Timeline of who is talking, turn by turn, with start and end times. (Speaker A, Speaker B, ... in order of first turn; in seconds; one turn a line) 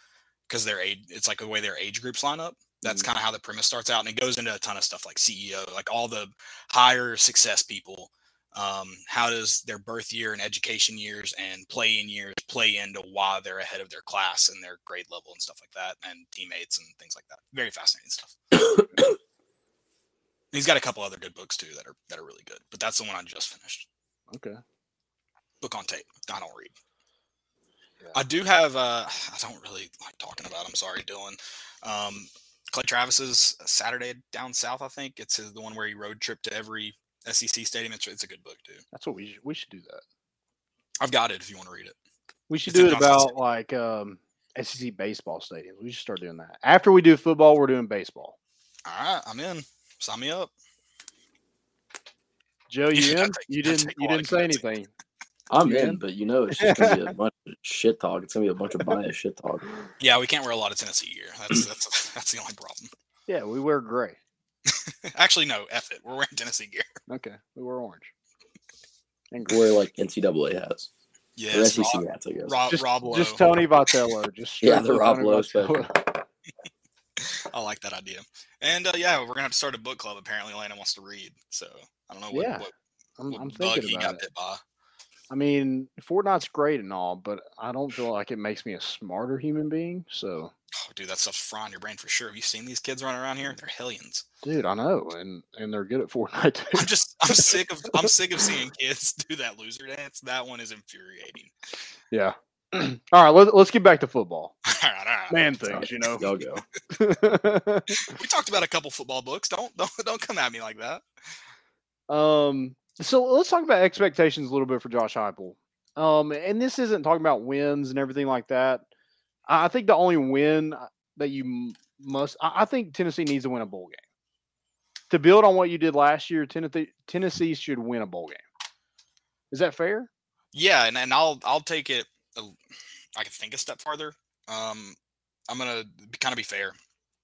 Speaker A: 0.5-18.4
Speaker B: 2.8-3.1
Speaker A: 20.5-23.9
Speaker B: 24.3-24.6
Speaker A: 25.6-26.8
Speaker A: 28.1-38.8
Speaker B: 38.9-40.0
Speaker A: 41.0-42.0
Speaker B: 42.5-48.4
Speaker A: 42.7-43.3
Speaker A: 48.9-50.5
Speaker B: 52.7-54.9
Speaker A: 52.9-54.6
Speaker C: 55.5-59.9
Speaker B: 55.6-56.0
Speaker B: 56.6-57.0
Speaker A: 60.0-62.9
Speaker B: 63.3-64.2
Speaker A: 64.7-66.9
Speaker B: 67.1-68.1
Speaker B: 69.3-69.6
Speaker C: 69.5-70.9
Speaker A: 71.4-73.6
Speaker C: 71.5-72.7
Speaker B: 72.7-75.9
Speaker C: 74.6-76.1
Speaker A: 77.2-82.7
Speaker B: 82.3-82.7
Speaker B: 83.2-84.2
Speaker A: 83.3-84.6
Speaker B: 85.3-90.5
Speaker A: 90.7-94.2
Speaker B: 94.4-98.1
Speaker A: 96.7-101.5
Speaker B: 102.1-104.5
Speaker A: 104.7-105.4
Speaker B: 105.3-106.3
Speaker C: 105.7-106.6
Speaker B: 106.9-108.0
Speaker A: 108.0-111.0
Speaker B: 112.1-118.9
Speaker B: 119.5-124.0
Speaker B: 125.1-128.4
Speaker B: 129.5-130.1
Speaker A: 130.5-132.6
Speaker A: 133.2-135.0
Speaker A: 135.5-136.8